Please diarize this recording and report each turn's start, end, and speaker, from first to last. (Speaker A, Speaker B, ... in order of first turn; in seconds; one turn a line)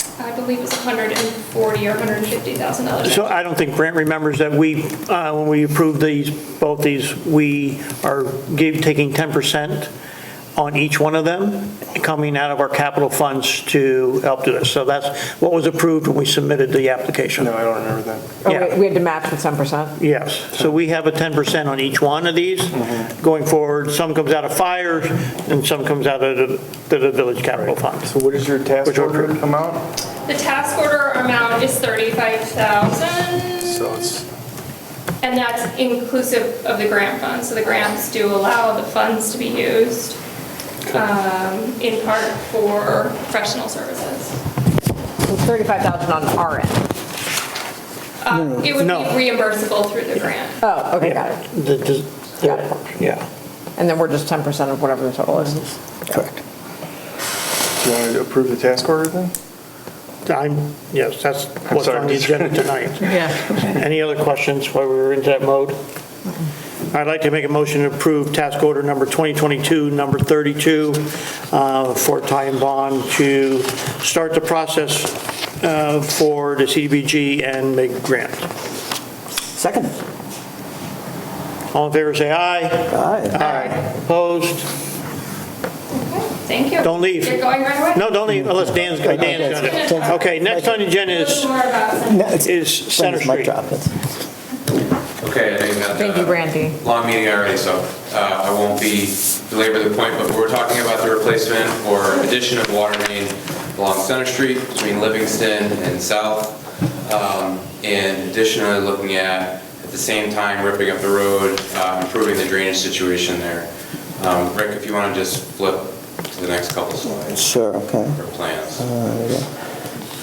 Speaker A: 0.2-3.3
Speaker B: 3.0-9.9
Speaker B: 10.6-17.6
Speaker C: 17.4-18.4
Speaker D: 18.4-20.0
Speaker B: 18.5-18.8
Speaker B: 20.0-28.1
Speaker C: 22.7-23.1
Speaker C: 27.5-29.9
Speaker B: 28.8-29.4
Speaker A: 30.3-33.9
Speaker C: 33.6-34.2
Speaker A: 35.2-40.2
Speaker A: 40.9-44.3
Speaker D: 45.2-46.9
Speaker A: 48.2-50.6
Speaker E: 48.3-48.7
Speaker B: 48.8-49.1
Speaker D: 50.6-51.5
Speaker B: 51.0-53.2
Speaker D: 52.4-52.8
Speaker D: 53.8-55.8
Speaker C: 57.8-59.3
Speaker B: 60.2-65.8
Speaker C: 61.7-62.8
Speaker B: 66.9-78.5
Speaker E: 79.5-80.0
Speaker B: 81.7-84.7
Speaker E: 82.9-83.4
Speaker A: 83.5-83.8
Speaker A: 85.9-88.2
Speaker B: 86.8-91.5
Speaker E: 88.3-90.8
Speaker A: 88.9-92.4
Speaker E: 92.0-94.0
Speaker B: 92.4-93.5
Speaker F: 95.2-117.3
Speaker D: 95.9-96.8
Speaker E: 117.1-118.2
Speaker F: 118.1-118.8
Speaker E: 118.8-119.5